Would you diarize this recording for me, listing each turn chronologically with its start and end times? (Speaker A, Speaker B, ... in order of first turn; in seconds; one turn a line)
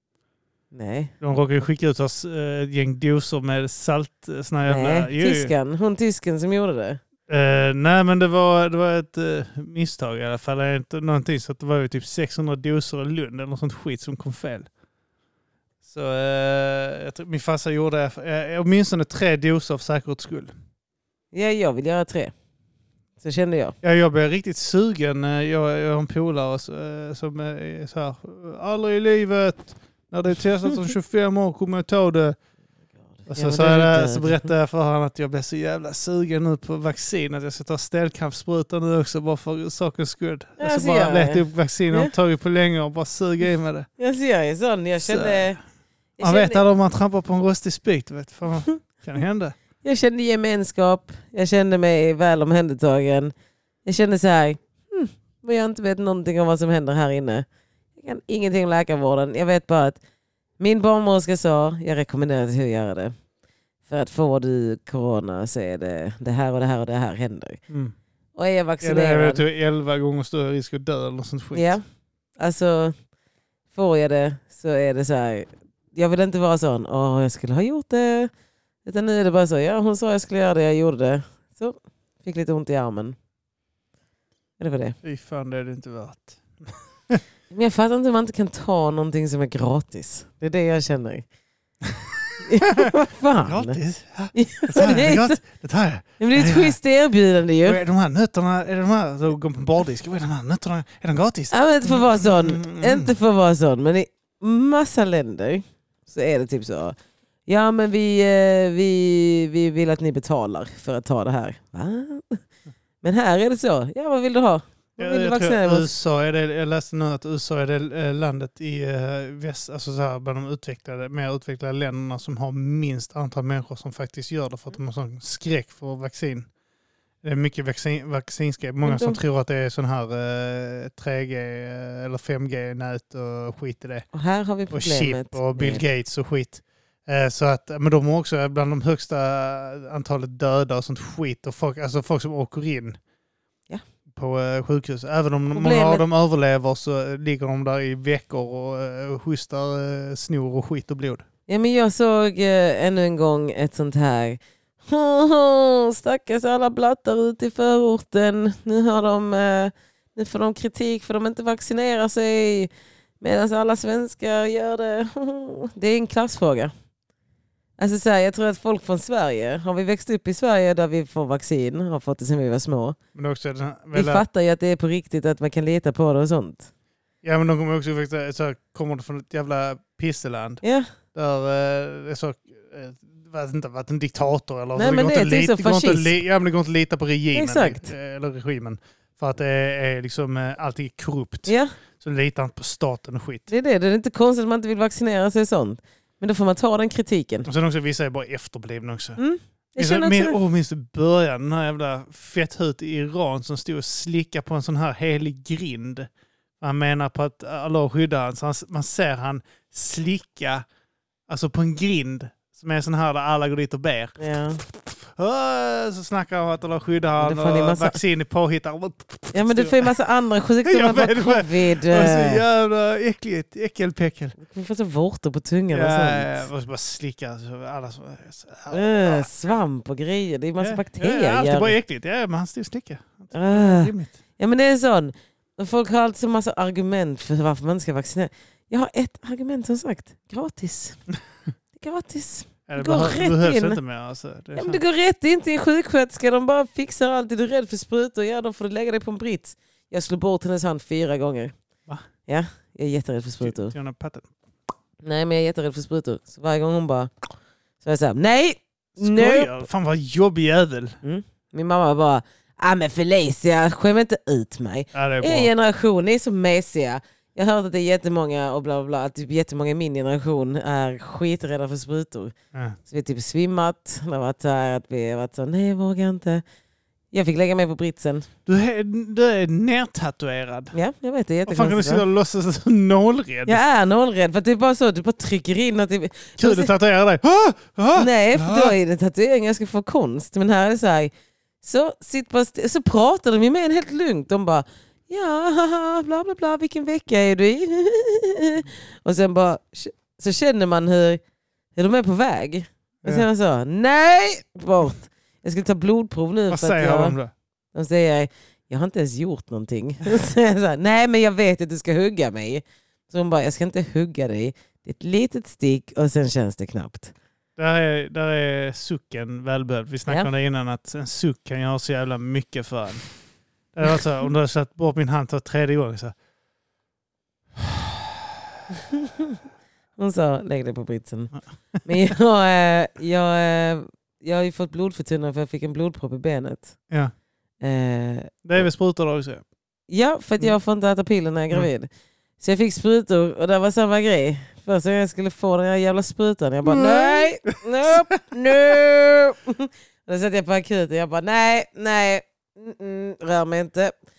Speaker A: 0.7-1.1
Speaker B: 1.2-5.5
Speaker A: 4.7-7.0
Speaker B: 7.3-14.7
Speaker B: 15.8-20.5
Speaker A: 21.3-22.3
Speaker A: 23.2-23.8
Speaker B: 23.8-32.4
Speaker A: 33.2-34.5
Speaker B: 33.3-43.9
Speaker A: 40.6-42.1
Speaker A: 44.0-45.6
Speaker B: 45.0-45.6
Speaker A: 46.2-46.6
Speaker B: 46.2-49.5
Speaker A: 49.8-53.3
Speaker A: 53.9-60.0
Speaker A: 60.6-63.1
Speaker A: 63.9-67.6
Speaker B: 67.7-68.0
Speaker A: 68.4-69.4
Speaker B: 68.8-71.8
Speaker A: 71.5-71.8
Speaker A: 72.4-73.0
Speaker A: 73.7-78.3
Speaker A: 78.8-83.2
Speaker A: 84.6-85.0
Speaker B: 85.0-87.2
Speaker A: 87.5-91.2
Speaker B: 91.8-96.8
Speaker A: 92.4-93.8
Speaker A: 94.3-95.4
Speaker A: 96.2-97.8
Speaker B: 97.6-103.1
Speaker A: 101.5-112.4
Speaker A: 113.0-115.9
Speaker B: 115.0-126.5
Speaker B: 127.2-134.1
Speaker A: 128.8-129.2
Speaker A: 134.1-135.8
Speaker B: 134.7-143.0
Speaker B: 144.1-151.2
Speaker A: 145.5-146.1
Speaker A: 151.5-166.7
Speaker A: 167.8-173.0
Speaker B: 173.2-174.2
Speaker A: 173.9-176.7
Speaker B: 177.2-180.6
Speaker A: 180.6-180.9
Speaker B: 181.1-193.5
Speaker A: 184.8-186.2
Speaker A: 187.3-187.9
Speaker A: 191.5-191.8
Speaker A: 193.5-197.5
Speaker B: 197.4-199.2
Speaker A: 199.2-200.4
Speaker B: 199.8-206.1
Speaker B: 206.6-210.7
Speaker B: 211.3-219.9
Speaker A: 214.2-214.6
Speaker A: 217.2-218.0
Speaker A: 219.3-222.4
Speaker B: 220.7-224.4
Speaker A: 224.4-226.5
Speaker B: 225.7-229.3
Speaker A: 228.7-231.8
Speaker B: 230.6-234.2
Speaker A: 233.3-241.0
Speaker A: 241.8-243.8
Speaker B: 242.7-244.8
Speaker A: 244.6-251.5
Speaker A: 252.3-253.8
Speaker B: 253.4-254.3
Speaker A: 255.0-257.1
Speaker A: 257.8-259.6
Speaker B: 259.0-261.0
Speaker A: 261.0-272.3
Speaker B: 264.9-265.5
Speaker A: 272.9-276.4
Speaker A: 277.1-278.3
Speaker B: 278.5-280.8
Speaker A: 280.7-282.0
Speaker B: 281.5-283.6
Speaker A: 283.5-286.7
Speaker B: 286.4-288.8
Speaker A: 287.9-301.2
Speaker A: 301.8-307.2
Speaker B: 306.5-307.3
Speaker A: 307.7-317.1
Speaker B: 317.6-323.1
Speaker B: 323.7-326.1
Speaker B: 327.6-328.1
Speaker A: 330.0-331.3
Speaker A: 331.9-336.8
Speaker A: 337.6-338.6
Speaker B: 338.4-339.4
Speaker A: 339.9-353.9
Speaker B: 346.7-347.9